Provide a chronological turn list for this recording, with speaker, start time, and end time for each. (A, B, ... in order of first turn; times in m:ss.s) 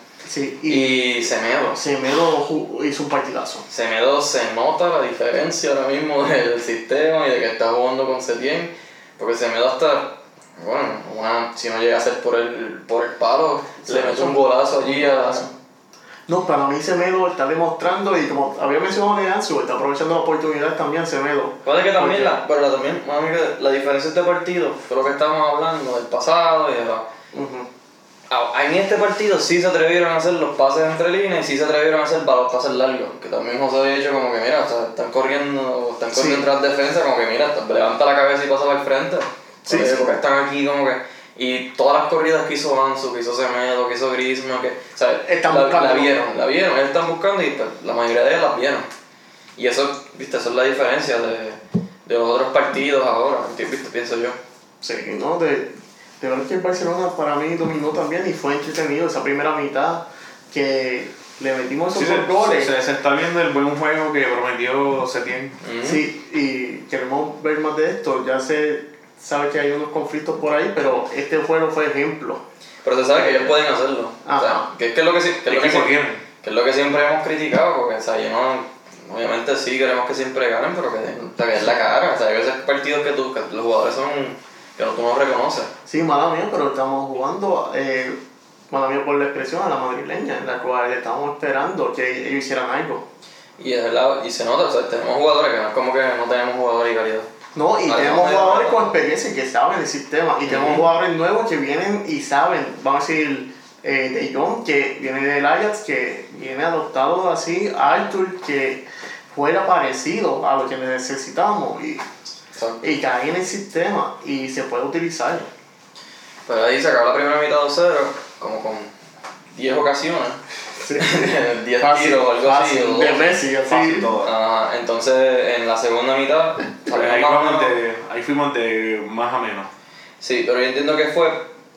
0:00.2-0:01.1 A
0:00.7-0:01.8 B
0:01.7-0:03.6 A
0:03.7-0:15.5 B
0:13.8-0:15.5 A
0:16.3-0:22.3 A
0:21.6-0:27.1 B
0:27.3-0:27.7 A
0:28.3-0:48.9 B
0:36.1-0:36.4 A
0:39.6-0:40.1 A
0:45.2-0:46.2 A
0:49.6-0:54.4 B
0:54.8-1:02.7 A
1:01.9-1:05.6 C
1:05.6-1:06.0 B
1:05.8-1:12.4 A
1:12.8-1:25.7 B
1:13.1-1:13.6 A
1:14.2-1:14.6 A
1:15.4-1:16.2 C
1:25.8-1:28.2 A
1:28.7-1:33.0 A
1:33.6-1:37.3 B
1:37.5-1:52.0 A
1:37.8-1:38.9 B
1:40.4-1:40.9 B
1:52.6-1:53.0 B
1:52.8-1:55.5 A
1:56.5-1:58.9 B
1:59.5-2:00.4 B
2:00.8-2:04.1 A
2:01.0-2:03.3 B
2:03.6-2:04.3 C
2:04.2-2:07.7 B
2:06.8-2:09.7 C
2:10.2-2:11.5 B